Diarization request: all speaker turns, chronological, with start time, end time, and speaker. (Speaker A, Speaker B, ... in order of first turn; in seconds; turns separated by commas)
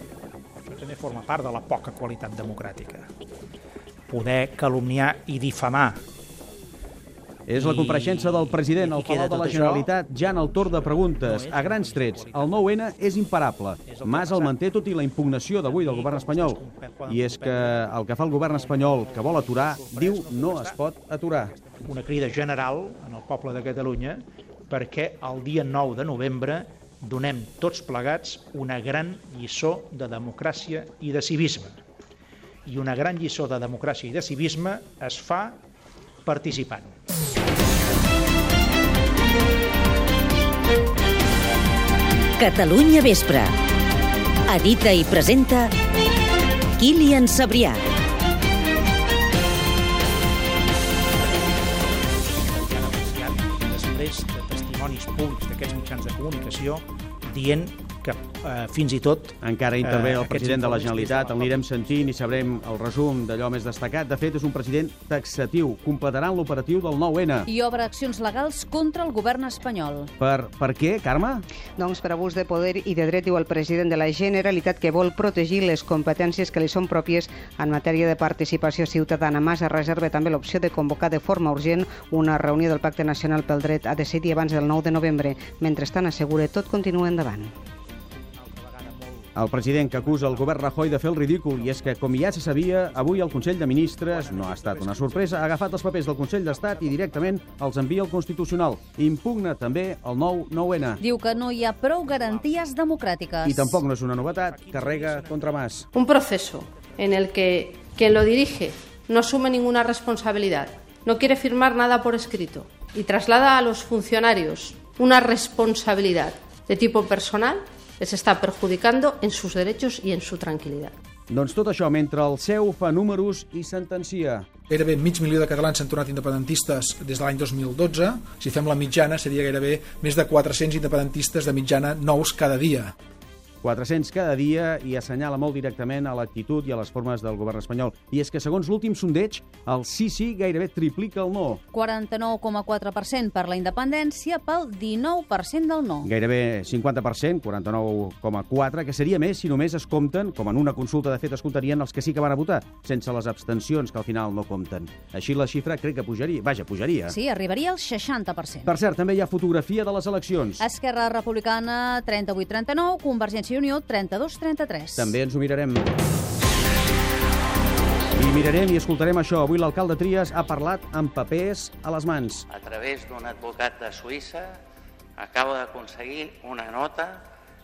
Speaker A: 0.7-3.1, Speaker A: 4.1-6.0, Speaker B: 7.5-16.6, Speaker A: 7.5-9.9, Speaker A: 10.6-12.7, Speaker A: 13.9-14.6, Speaker A: 15.6-17.9, Speaker B: 17.1-21.5, Speaker A: 18.4-20.8, Speaker A: 21.3-31.8, Speaker A: 32.7-35.6, Speaker A: 36.3-36.9, Speaker C: 42.4-43.5, Speaker C: 44.5-45.7, Speaker C: 46.8-47.8, Speaker A: 51.3-62.6, Speaker B: 59.4-67.5, Speaker D: 67.5-70.1, Speaker B: 70.2-71.4, Speaker E: 71.8-87.5, Speaker A: 88.3-97.9, Speaker B: 89.4-101.0, Speaker D: 101.0-103.9, Speaker A: 101.0-103.1, Speaker B: 103.4-105.8, Speaker A: 104.0-107.5, Speaker F: 106.0-121.0, Speaker B: 121.3-124.5, Speaker G: 124.7-132.9, Speaker B: 133.6-141.6, Speaker D: 141.7-146.1, Speaker B: 146.0-157.2, Speaker D: 157.1-158.7, Speaker B: 158.7-160.7, Speaker D: 160.6-165.2, Speaker B: 165.0-165.9, Speaker B: 168.2-172.5, Speaker H: 172.5-174.4, Speaker H: 175.2-177.2